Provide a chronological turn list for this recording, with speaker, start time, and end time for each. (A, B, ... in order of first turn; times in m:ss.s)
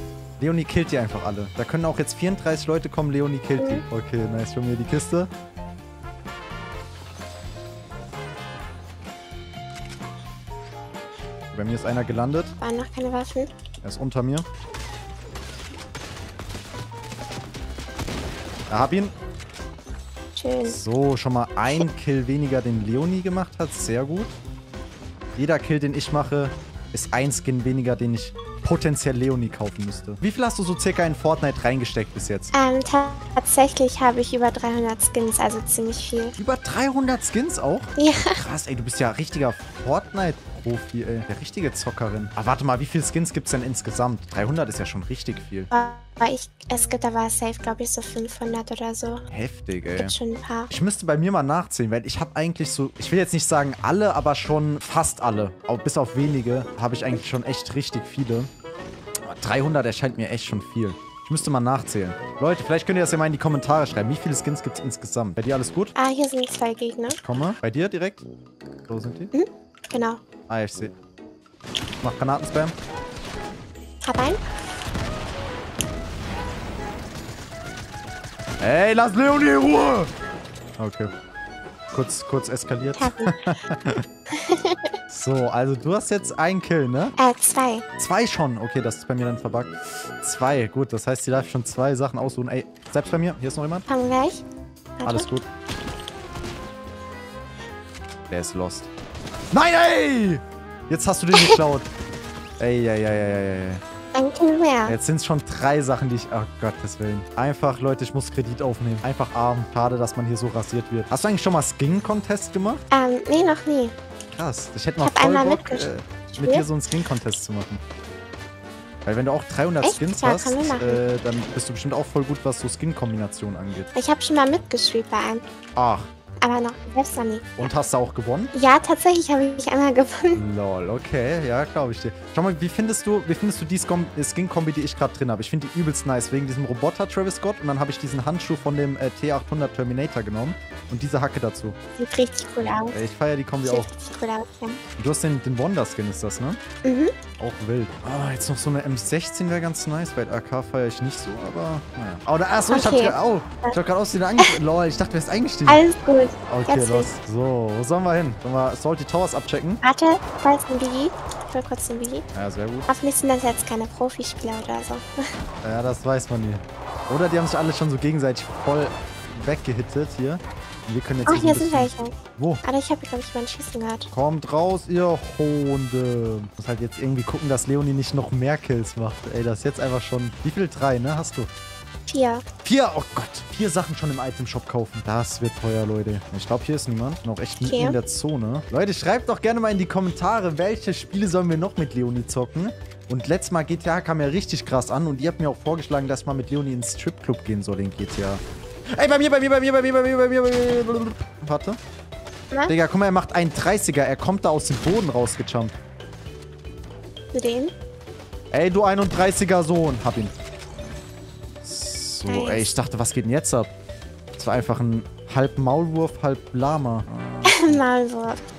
0:00.4-0:05.3 A
0:03.6-0:03.8 B
0:11.5-0:12.5 A
0:12.6-0:13.5 B
0:13.8-0:14.4 A
0:18.7-0:19.1 A
0:20.3-0:20.8 B
0:20.6-0:24.3 A
0:25.4-0:32.5 A
0:32.5-0:36.4 B
0:36.4-0:45.7 A
0:38.0-0:38.4 B
0:45.7-0:49.2 B
0:49.3-0:50.1 A
0:49.9-0:50.7 B
0:50.7-0:58.5 A
0:59.2-1:05.9 A
1:05.9-1:07.2 B
1:07.1-1:08.2 A
1:08.9-1:09.3 A
1:09.3-1:10.2 B
1:10.5-1:10.9 A
1:12.0-1:12.7 A
1:14.0-1:14.4 B
1:18.6-1:20.1 A
1:20.8-1:21.1 A
1:21.9-1:24.0 A
1:23.0-1:23.4 B
1:24.3-1:24.9 B
1:25.1-1:27.1 A
1:27.2-1:27.8 B
1:28.0-1:33.8 A
1:33.9-1:34.4 B
1:35.0-1:35.3 B
1:35.0-1:35.4 A
1:38.3-1:38.9 A
1:39.5-1:41.9 A
1:41.3-1:41.6 B
1:42.6-1:43.8 A
1:44.1-1:45.0 B
1:44.8-1:52.8 A
1:52.9-1:53.9 B
1:54.3-1:57.8 A
1:55.0-1:56.7 B
1:59.0-2:03.9 A
1:59.8-2:01.0 B
2:03.9-2:05.4 B
2:05.8-2:06.1 A
2:06.4-2:07.7 B
2:07.6-2:08.5 A
2:08.5-2:10.4 B
2:10.3-2:21.8 A
2:22.0-2:23.0 B
2:22.9-2:23.9 A
2:23.6-2:24.8 B
2:25.0-2:26.6 A
2:26.8-2:27.1 B
2:27.4-2:35.8 A
2:32.7-2:33.8 B
2:35.6-2:37.1 B
2:36.5-2:39.8 A
2:39.8-2:42.2 B
2:42.3-2:42.9 A
2:42.9-2:45.1 B
2:45.6-2:52.6 A
2:51.2-2:54.1 B
2:54.1-3:01.5 A
3:02.1-3:02.4 B
3:02.6-3:18.4 A
3:07.6-3:08.0 B
3:18.9-3:21.8 A
3:22.5-3:22.8 B
3:22.7-3:25.7 A
3:27.3-3:27.7 B
3:28.5-3:30.3 A
3:31.6-3:33.7 A
3:32.3-3:32.7 B
3:34.4-3:37.8 A
3:37.4-3:38.4 B